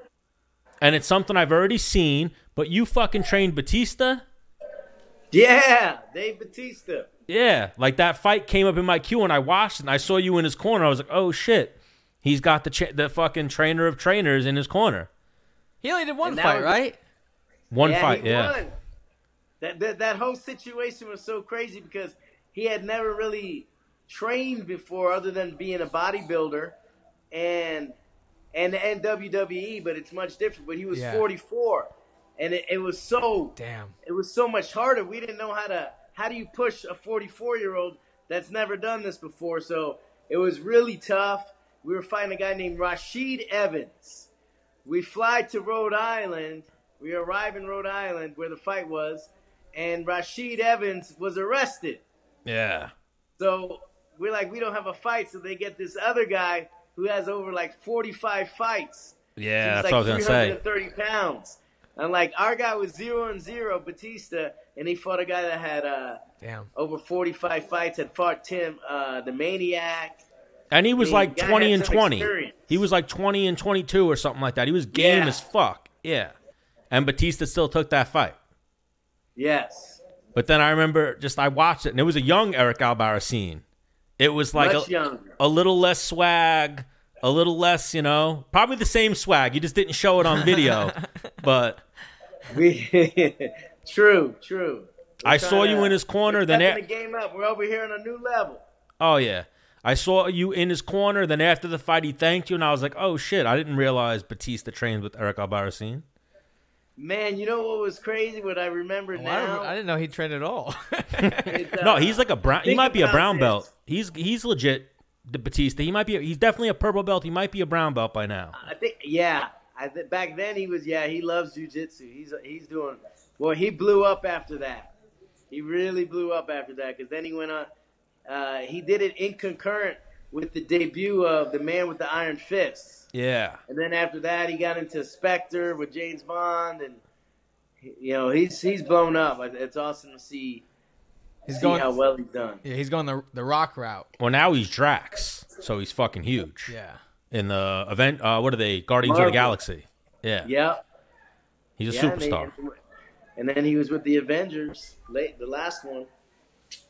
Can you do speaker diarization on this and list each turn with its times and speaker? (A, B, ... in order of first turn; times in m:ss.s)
0:00.8-0:04.2 A
0:05.3-0:07.1 B
0:07.3-0:15.1 A
0:15.8-0:17.0 C
0:16.2-0:16.8 B
0:17.7-0:18.6 A
0:17.8-0:18.7 B
0:19.6-0:26.8 B
0:27.3-0:28.0 B
0:28.5-0:44.3 B
0:30.9-0:31.3 C
0:33.6-0:33.9 C
0:44.8-0:52.0 B
0:52.5-0:52.9 A
0:53.4-1:06.2 B
0:59.4-1:00.6 A
1:06.4-1:06.7 C
1:06.8-1:10.2 B
1:10.7-1:16.3 A
1:11.0-1:12.7 B
1:14.9-1:15.4 B
1:16.9-1:18.4 A
1:19.4-1:20.0 B
1:20.4-1:23.6 A
1:24.2-1:31.8 A
1:24.6-1:25.4 B
1:30.3-1:31.0 C
1:32.5-1:38.6 B
1:35.2-1:36.8 A
1:39.0-1:46.0 A
1:47.0-1:49.7 B
1:49.2-1:51.6 C
1:51.5-1:53.6 B
1:51.8-1:58.6 A
1:58.6-2:04.9 B
2:05.5-2:07.7 B
2:08.3-2:13.1 B
2:13.1-2:13.6 A
2:13.7-2:17.0 B
2:17.8-2:20.6 B
2:21.5-2:21.9 C
2:21.5-2:22.6 B
2:22.6-2:24.1 C
2:24.2-2:26.7 A
2:26.7-2:27.0 C
2:27.3-2:30.5 A
2:29.0-2:29.6 B
2:30.4-2:30.8 B
2:31.8-2:32.5 A
2:31.9-2:32.7 B
2:33.4-2:36.1 B